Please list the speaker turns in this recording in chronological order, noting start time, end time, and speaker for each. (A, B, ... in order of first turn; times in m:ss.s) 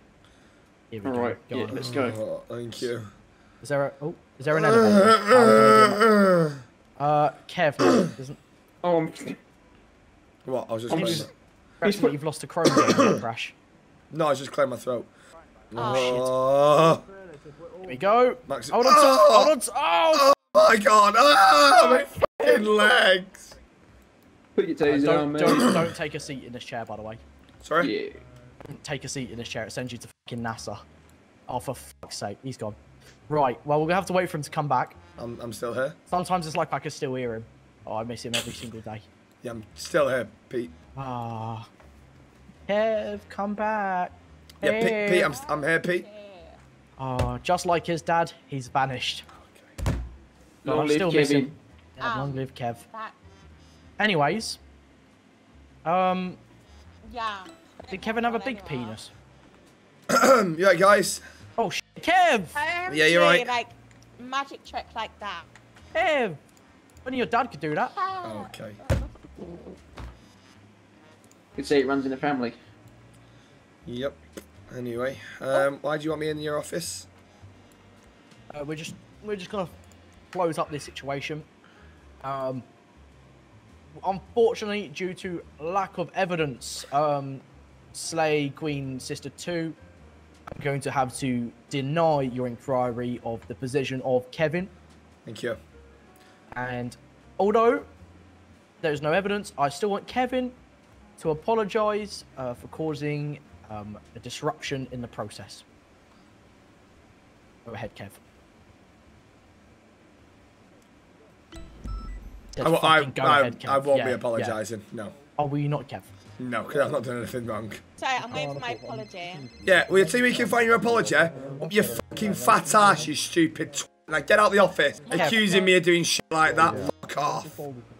0:00.9-0:01.9 A
0:01.0-0:02.2 B
0:01.7-0:03.1 C
0:03.6-0:06.0 A
0:04.5-0:06.6 C
0:07.0-0:08.4 A
0:08.8-0:09.4 B
0:10.4-0:11.3 C
0:10.9-0:11.3 B
0:10.9-0:11.3 A
0:11.8-0:13.5 A
0:11.8-0:12.1 B
0:14.1-0:15.1 C
0:15.7-0:17.0 C
0:15.7-0:16.2 D
0:15.8-0:16.3 A
0:17.8-0:20.3 A
0:18.5-0:19.5 C
0:20.1-0:23.4 C
0:24.5-0:25.8 B
0:24.8-0:27.2 A
0:25.5-0:25.8 C
0:27.6-0:27.9 C
0:27.8-0:28.2 B
0:28.7-0:30.8 A
0:31.5-0:32.8 A
0:33.3-0:35.0 A
0:35.2-0:36.0 C
0:36.1-0:39.0 A
0:39.4-0:40.7 C
0:41.0-0:41.7 A
0:42.7-0:45.3 A
0:44.6-0:46.0 C
0:45.2-0:46.6 D
0:47.0-0:49.2 A
0:50.6-0:51.5 B
0:50.7-0:52.8 A
0:52.0-0:53.1 D
0:54.0-0:54.6 A
0:55.8-0:56.4 A
0:57.1-0:59.0 D
0:57.9-0:59.1 A
1:00.1-1:01.2 C
1:01.6-1:02.6 A
1:02.5-1:05.4 D
1:02.9-1:03.5 C
1:05.9-1:06.4 A
1:07.0-1:07.9 A
1:07.8-1:09.1 D
1:08.2-1:08.8 C
1:11.6-1:12.6 B
1:13.8-1:17.1 C
1:18.5-1:19.7 A
1:20.3-1:21.5 A
1:22.2-1:22.6 A
1:24.0-1:27.4 A
1:27.9-1:29.8 A
1:30.5-1:34.7 A
1:35.2-1:35.6 C
1:36.5-1:37.9 A
1:38.8-1:40.6 A
1:41.2-1:45.6 A
1:47.6-1:48.2 A
1:52.5-1:54.6 A
1:52.6-1:55.1 C
1:55.4-1:56.1 A
1:56.4-1:57.8 C
1:58.0-1:59.5 D
1:59.6-2:07.6 C
2:05.1-2:05.4 D
2:05.1-2:05.4 A